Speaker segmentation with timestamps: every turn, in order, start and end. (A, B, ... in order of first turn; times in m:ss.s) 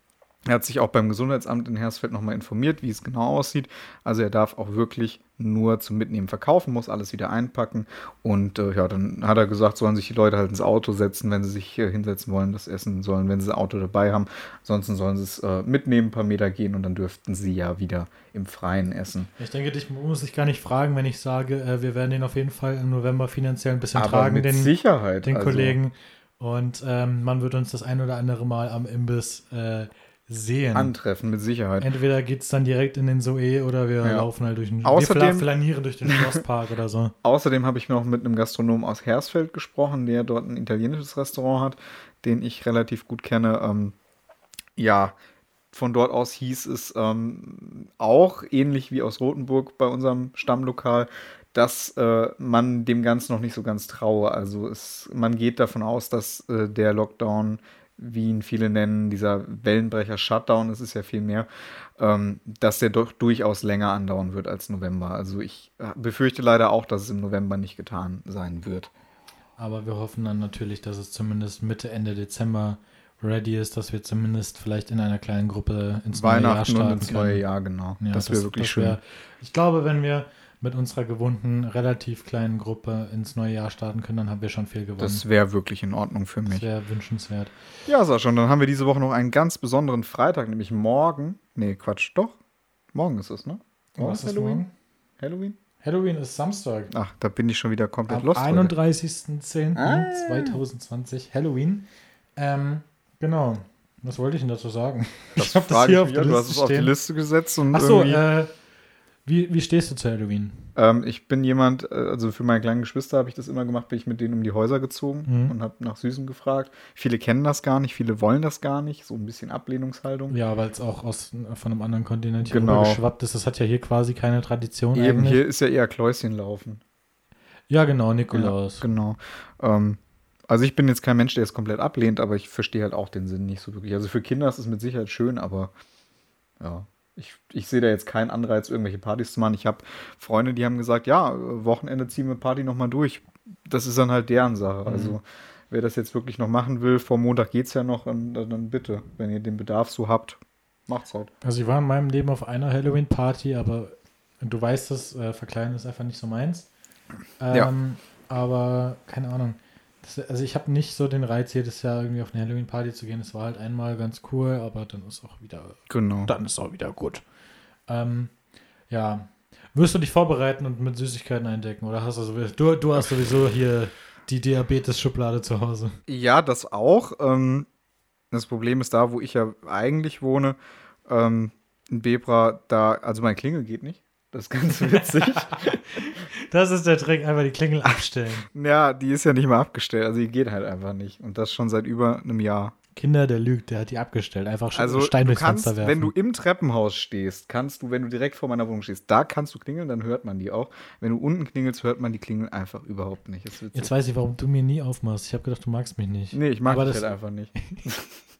0:00.5-0:19.3 A
0:19.4-0:30.9 B
0:24.0-0:25.8 A
0:30.7-0:31.9 A
0:31.8-0:37.1 B
0:34.0-0:34.3 A
0:34.8-0:35.5 A
0:37.2-0:44.0 A
0:44.8-0:45.2 A
0:45.7-1:08.9 A
1:09.6-1:17.4 B
1:16.1-1:19.0 A
1:18.0-1:25.2 B
1:25.0-1:26.7 A
1:26.5-1:27.5 B
1:27.9-1:32.4 A
1:32.9-1:34.6 A
1:34.0-1:34.7 B
1:35.2-1:35.6 A
1:35.8-1:36.9 B
1:36.9-1:38.7 A
1:38.1-1:46.9 B
1:39.8-1:40.6 A
1:45.4-1:48.2 A
1:47.7-1:48.5 B
1:49.3-1:50.7 B
1:50.8-2:00.4 A
1:55.3-1:55.6 B
2:00.3-2:05.4 B
2:02.4-2:03.0 A
2:05.0-2:06.8 A
2:07.7-2:08.8 B
2:08.3-2:15.7 A
2:16.6-2:31.3 A
2:24.9-2:25.2 B
2:31.4-2:36.7 B
2:37.4-2:47.2 B
2:45.9-2:46.3 A
2:47.9-2:48.3 B
2:48.9-2:56.0 B
2:56.1-2:57.7 A
2:58.3-3:05.8 A
3:05.0-3:08.5 B
3:08.4-3:12.7 A
3:13.0-3:16.1 B
3:14.7-3:23.9 A
3:23.7-3:27.1 B
3:26.3-3:28.0 A